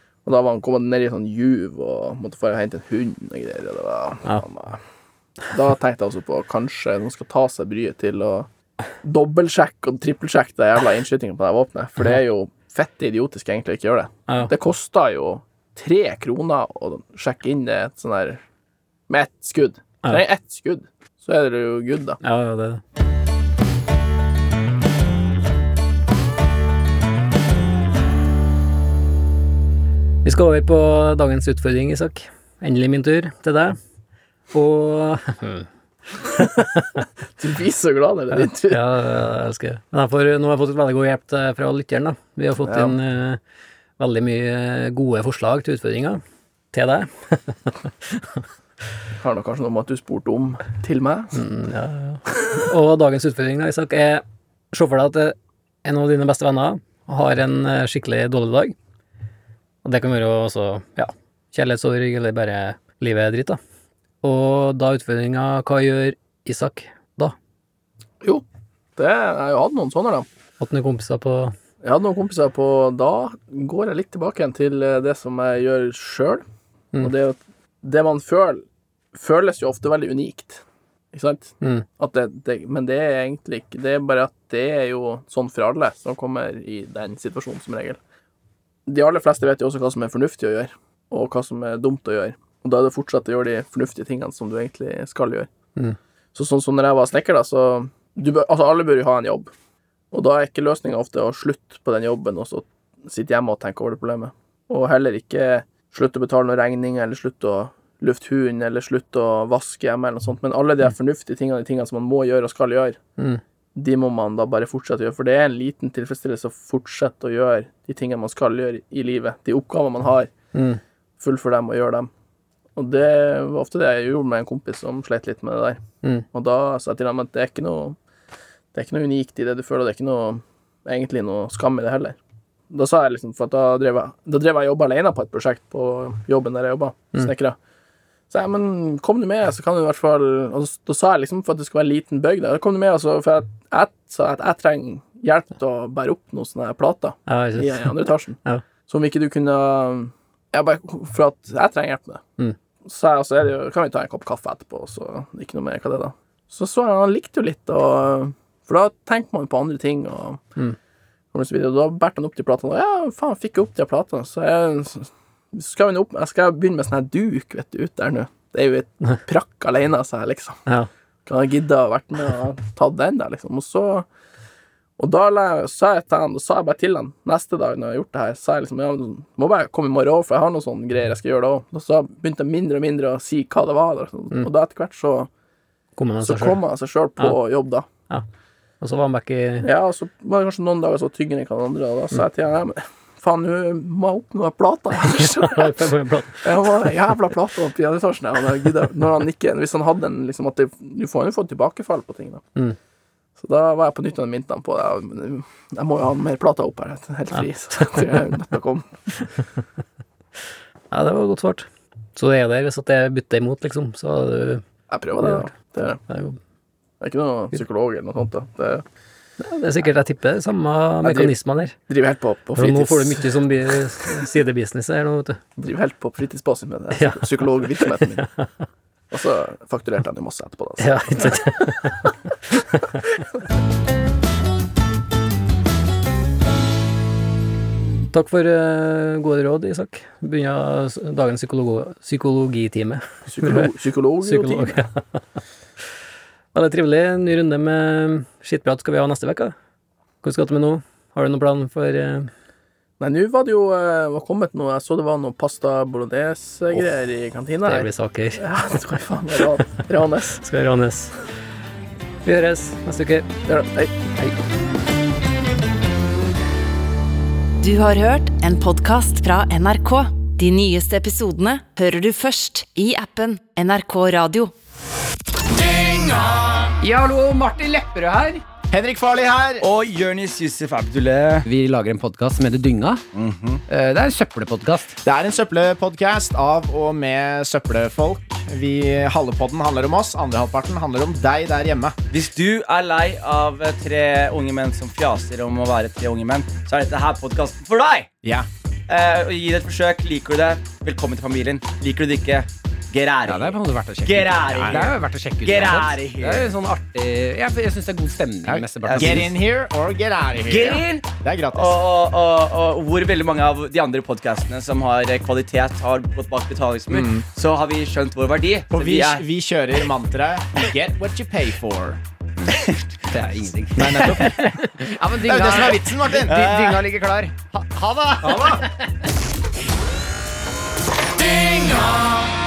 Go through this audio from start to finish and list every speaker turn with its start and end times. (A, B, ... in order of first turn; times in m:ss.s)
0:00.2-0:04.8 A
0:05.5-0:08.5 A
0:09.0-0:18.4 A
0:14.3-0:14.5 B
0:19.1-0:22.2 A
0:22.2-0:22.8 B
0:30.2-0:33.8 B
0:34.5-0:36.8 B
0:37.4-0:38.8 A
0:38.4-0:43.4 B
0:42.6-0:43.0 A
0:44.0-0:46.2 B
0:46.7-0:48.4 B
0:49.2-0:51.4 A
0:51.3-0:58.8 B
0:59.8-1:03.6 B
1:04.2-1:07.3 B
1:08.2-1:10.3 A
1:10.6-1:11.6 B
1:11.8-1:16.4 A
1:17.0-1:28.0 A
1:21.6-1:21.8 B
1:28.8-1:35.5 A
1:36.3-1:39.5 A
1:40.1-1:53.0 A
1:53.7-2:00.3 A
2:00.5-2:00.8 B
2:01.2-2:02.1 A
2:02.8-2:05.8 A
2:06.3-2:08.0 A
2:08.7-2:12.2 A
2:12.7-2:17.6 A
2:18.3-2:32.2 A
2:27.3-2:28.6 B
2:32.8-2:40.4 A
2:41.3-2:50.6 A
2:51.2-2:54.1 A
2:55.0-3:05.3 A
3:06.0-3:06.6 B
3:06.2-3:07.9 A
3:08.8-3:09.7 B
3:09.6-3:15.8 A
3:15.0-3:16.8 B
3:16.4-3:22.4 A
3:23.4-3:28.9 A
3:27.4-3:28.0 B
3:30.9-3:34.6 B
3:34.9-3:36.0 A
3:35.2-3:35.5 B
3:36.1-3:36.4 B
3:37.0-3:38.8 A
3:39.4-3:41.8 B
3:41.0-3:41.3 A
3:41.9-3:44.1 A
3:42.6-3:45.4 B
3:45.6-3:48.3 A
3:46.9-3:48.5 B
3:49.1-3:51.9 A
3:50.8-3:53.0 B
3:58.1-4:03.7 B
4:03.3-4:04.8 A
4:04.2-4:05.0 B
4:06.5-4:09.5 B
4:10.2-4:12.3 B
4:13.0-4:20.4 A
4:17.6-4:18.4 B
4:20.4-4:21.2 B
4:22.2-4:23.3 B
4:23.4-4:23.9 A
4:27.6-4:34.5 C
4:35.7-4:36.0 D
4:36.8-4:38.4 D
4:38.7-4:39.6 E
4:39.6-4:41.4 F
4:41.4-4:43.0 D
4:43.1-4:43.6 F
4:43.7-4:45.0 D
4:45.0-4:52.0 E
4:52.1-4:58.1 F
4:58.9-5:06.5 F
5:03.2-5:09.3 D
5:04.4-5:04.9 E
5:08.4-5:11.8 E
5:08.8-5:09.3 F
5:10.4-5:19.2 F
5:16.9-5:17.2 E
5:18.7-5:22.0 E
5:23.1-5:26.8 D
5:23.8-5:24.3 E
5:25.1-5:28.6 E
5:26.3-5:26.8 F
5:28.2-5:28.7 D
5:31.4-5:32.0 D